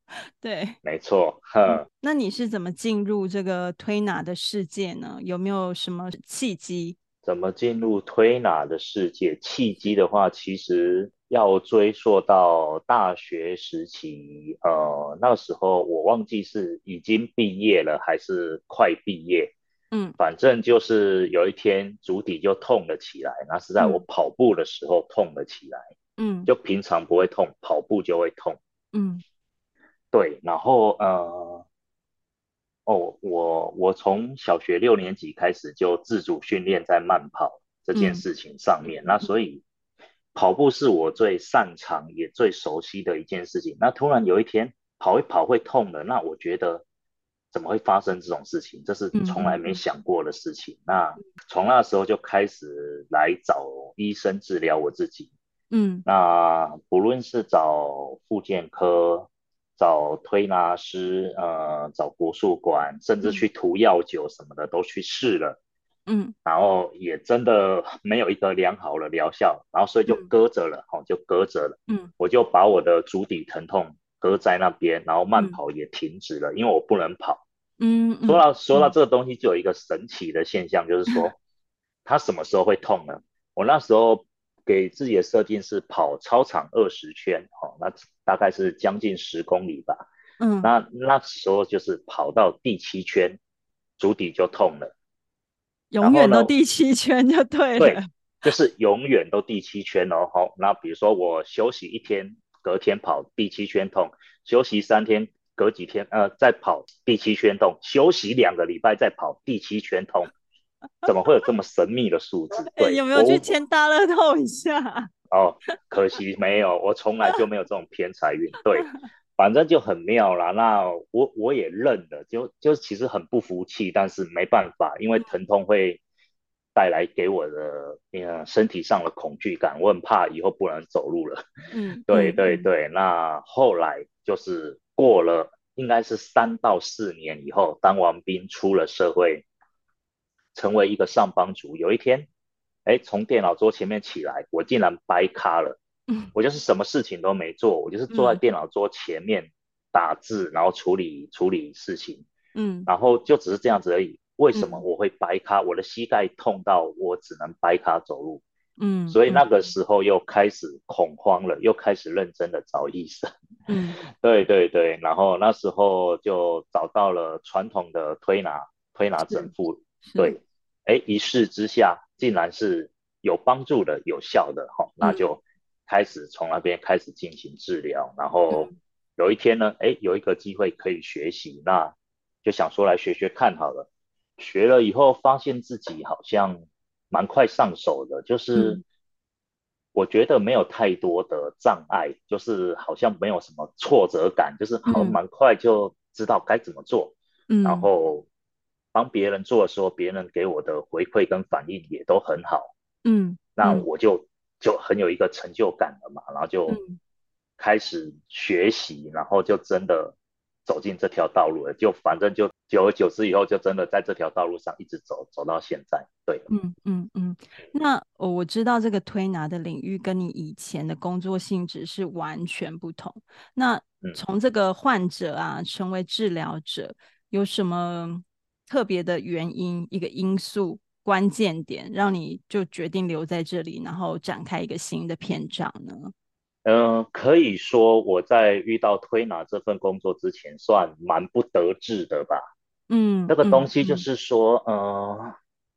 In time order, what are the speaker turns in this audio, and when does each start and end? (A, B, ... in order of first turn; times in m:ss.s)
0:00.4-0:00.8 A
0:00.8-0:01.9 B
0:01.7-0:07.0 A
0:07.2-0:19.5 B
0:19.9-0:20.2 A
0:20.2-0:25.8 B
0:23.8-0:24.0 A
0:26.2-0:26.5 A
0:26.5-0:28.6 B
0:28.9-0:29.2 A
0:30.1-0:31.7 B
0:32.9-0:39.6 B
0:37.9-0:38.2 A
0:40.4-0:46.8 B
0:47.5-0:55.3 B
0:49.1-0:49.8 A
0:55.7-0:56.1 A
0:56.1-1:05.6 B
1:06.1-1:06.3 A
1:06.4-1:17.4 B
1:17.8-1:18.9 A
1:18.3-1:21.4 B
1:22.0-1:30.1 B
1:30.4-1:30.7 A
1:30.6-1:33.4 B
1:34.0-1:34.9 B
1:35.9-1:38.1 A
1:36.0-1:36.5 B
1:37.8-1:50.3 B
1:51.0-1:53.5 B
1:52.6-1:55.1 A
1:55.3-2:06.0 B
2:06.8-2:11.4 B
2:11.7-2:12.7 A
2:12.1-2:19.5 B
2:20.6-2:22.3 B
2:22.8-2:25.8 B
2:26.3-2:32.3 B
2:28.1-2:28.4 A
2:32.6-2:32.9 A
2:32.9-2:38.4 B
2:34.5-2:34.8 A
2:38.8-2:39.4 A
2:39.1-2:43.3 B
2:43.7-2:44.0 A
2:44.0-3:08.8 B
2:50.0-2:50.4 A
2:58.5-2:58.7 A
3:08.6-3:08.8 A
3:09.9-3:18.3 B
3:14.9-3:15.2 A
3:17.5-3:17.9 A
3:18.9-3:22.7 B
3:23.0-3:23.9 A
3:23.6-3:26.8 B
3:26.7-3:27.0 A
3:27.6-3:36.5 B
3:36.5-3:56.1 A
3:56.6-4:02.4 B
4:02.9-4:04.1 A
4:03.3-4:05.4 B